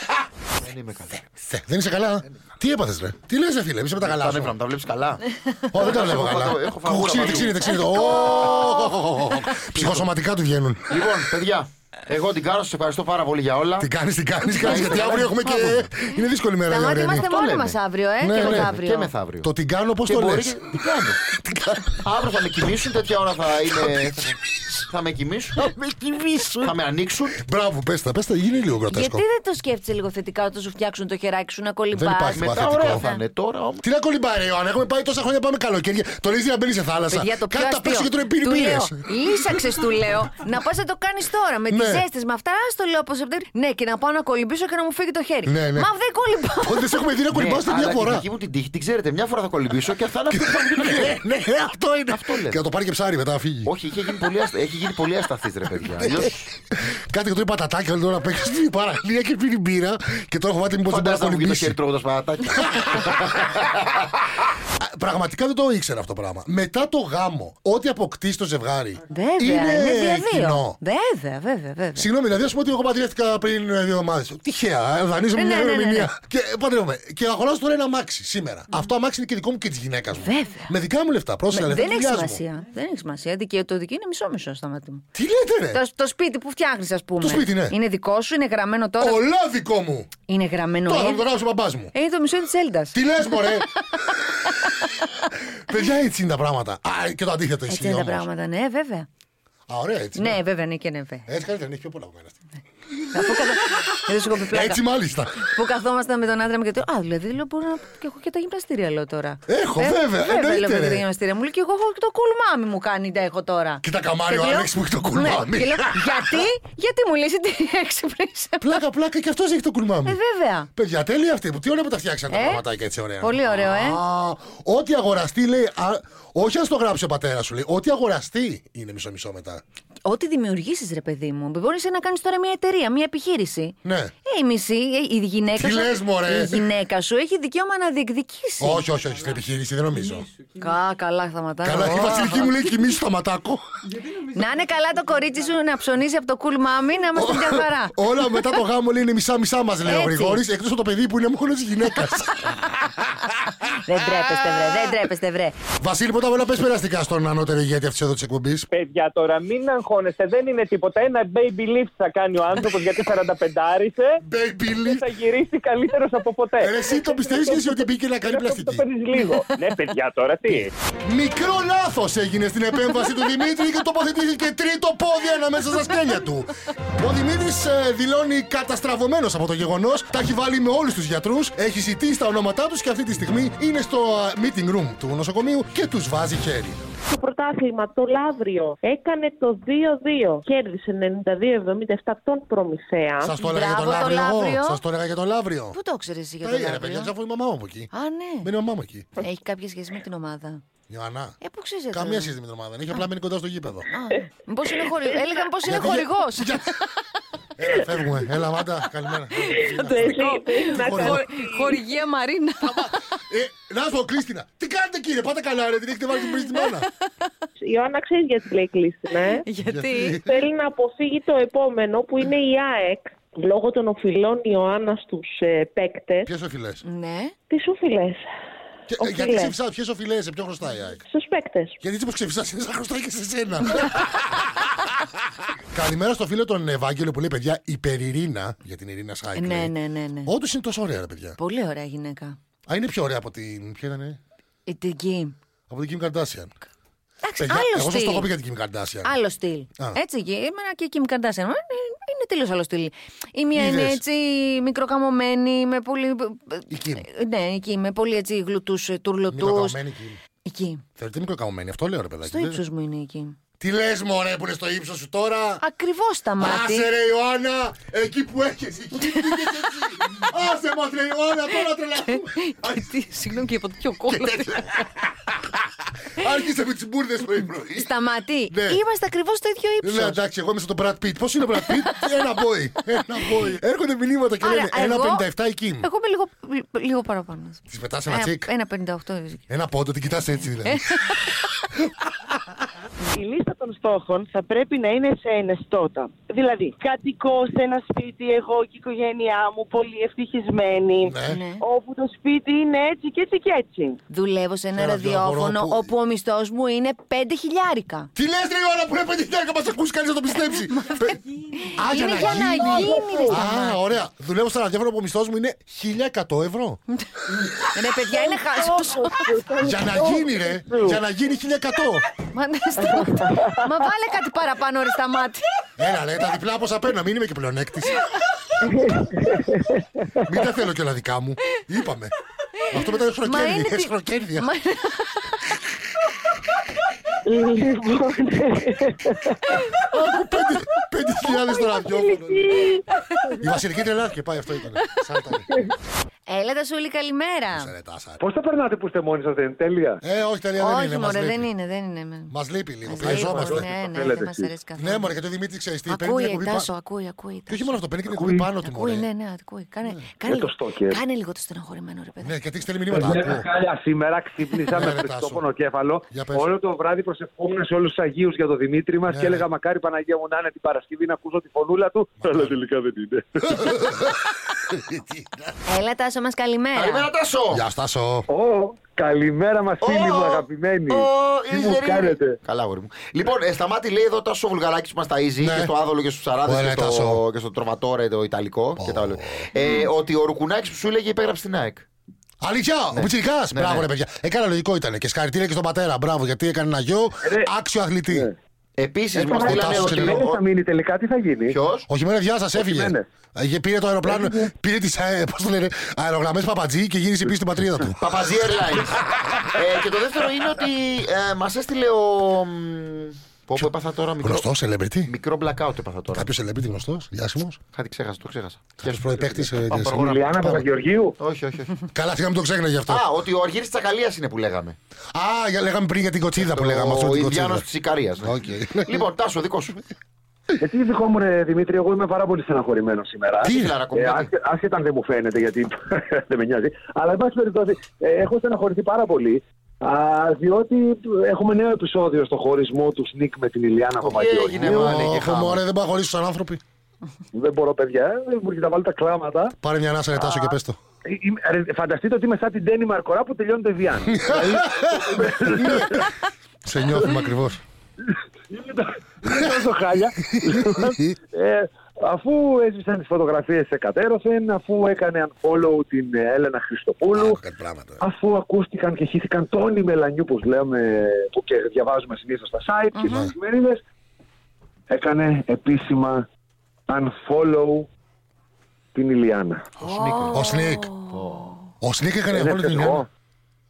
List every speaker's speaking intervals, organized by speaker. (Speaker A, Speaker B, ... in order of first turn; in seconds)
Speaker A: 0.6-1.2, 4.0-9.2, 9.7-10.1, 10.9-13.9, 14.6-15.8, 17.1-17.8, 18.4-19.5, 20.1-21.2, 22.0-27.4, 32.3-33.8, 47.3-51.2, 52.1-52.6, 53.6-56.5, 60.9-64.1, 376.7-377.6, 379.8-391.9, 392.9-393.9, 398.8-400.4, 401.5-401.9, 407.9-414.5, 415.1-416.3, 417.7-420.6, 421.2-421.8, 422.9-424.8, 426.4-429.8, 433.4-434.3, 444.0-445.6, 479.8-480.5, 481.1-481.5
Speaker B: 1.3-4.5, 5.7-11.1, 13.8-17.2, 18.2-18.7, 19.4-20.7, 21.3-22.0, 23.7-24.3, 26.4-26.7, 27.4-29.2, 31.9-33.0, 33.8-39.1, 41.7-42.0, 45.5-45.9, 46.6-48.2, 50.3-53.7, 55.9-61.8, 62.6-63.4, 64.8-70.8, 72.0-82.4, 85.1-85.8, 87.2-87.8, 89.0-90.1, 90.8-91.9, 92.9-93.7, 95.6-98.3, 99.7-100.4, 101.3-102.4, 103.0-105.5, 109.5-111.0, 113.8-116.4, 118.6-120.2, 120.7-129.6, 133.8-134.1, 135.6-136.7, 138.6-140.3, 141.6-143.6, 147.1-153.1, 155.8-158.7, 164.2-165.0, 166.6-168.8, 170.5-186.8, 193.2-195.8, 196.4-197.9, 198.4-199.1, 200.9-201.4, 201.9-203.9, 205.6-206.8, 207.6-210.2, 210.7-211.2, 212.6-216.9, 219.7-220.2, 226.2-226.8, 228.9-231.0, 231.8-234.4, 235.7-239.7, 240.2-241.4, 242.7-244.2, 245.7-246.5, 247.4-249.1, 253.5-254.0, 256.7-257.1, 259.3-260.2, 261.0-262.6, 263.6-265.6, 266.4-272.9, 274.1-275.0, 276.1-277.9, 278.5-278.8, 279.8-285.9, 287.7-288.5, 289.5-291.3, 301.1-301.4, 304.8-305.9, 308.1-311.2, 311.7-316.8, 319.6-322.0, 325.8-328.0, 330.2-332.1, 332.7-334.5, 339.9-342.6, 343.4-345.5, 347.5-348.2, 350.0-351.5, 352.3-353.7, 354.8-356.7, 357.5-359.1, 362.2-363.5, 364.7-365.4, 366.1-366.5, 369.1-369.4, 372.2-372.6, 373.5-375.6, 377.5-378.3, 385.4-385.7, 386.4-387.2, 388.8-389.4, 392.4-398.3, 399.4-400.2, 401.9-408.3, 409.1-409.4, 414.2-415.1, 416.1-417.6, 418.8-420.6, 421.9-423.0, 425.1-427.6, 428.2-429.1, 433.4-433.8, 444.6-446.6, 449.6-450.8, 454.1-456.1, 456.6-457.6, 460.3-461.1, 467.1-468.0, 480.3-480.9, 481.8-483.0
Speaker C: 7.7-8.9, 16.7-19.1, 28.9-33.2, 37.1-47.1, 69.1-72.1, 75.3-76.1, 80.2-80.7, 81.5-85.0, 85.7-89.2, 90.3-91.2, 91.9-93.6, 97.7-99.1, 100.2-101.3, 103.1-104.8, 105.4-118.8, 120.0-120.7, 122.3-122.6, 123.2-124.0, 130.0-138.8, 140.5-142.6, 144.1-148.4, 149.8-150.4, 153.8-155.6, 193.4-194.8, 195.7-197.1, 197.9-198.5, 199.2-200.6, 201.4-202.3, 203.9-206.9, 209.4-213.1, 219.4-220.2, 226.8-227.3, 239.3-240.3, 241.4-242.4, 244.7-245.3, 247.2-248.3, 249.0-259.8, 260.4-260.8, 262.2-263.4, 265.6-266.9, 269.1-269.4, 272.1-274.8, 277.8-280.2, 284.4-285.2, 285.8-289.4, 290.7-291.4, 301.2-301.6, 304.1-308.1, 310.7-313.8, 317.7-319.2, 322.3-325.4, 332.6-335.5, 346.3-347.7, 350.6-352.3, 352.8-355.1, 355.9-357.7, 358.6-362.4, 375.6-377.1, 472.9-473.3, 479.8-481.6
Speaker D: 158.7-164.2, 164.8-170.7
Speaker E: 187.1-193.3, 209.6-211.8, 217.6-219.4, 220.2-226.3, 227.5-228.2, 229.0-229.5, 231.1-231.8
Speaker F: 293.1-304.0, 312.5-313.3, 318.1-321.0, 328.6-330.0, 337.2-339.4, 341.3-342.8
Speaker G: 348.2-350.0, 353.0-354.5, 358.1-358.4, 360.2-361.0, 362.9-373.8, 378.3-382.4, 397.2-397.5, 399.1-401.6, 402.6-403.1, 404.1-404.5, 419.9-421.1, 430.6-445.1, 447.3-449.5, 450.2-450.5, 451.1-456.1, 458.0-467.4, 468.0-473.8, 474.9-476.2, 476.9-477.9, 478.9-479.7, 482.3-483.1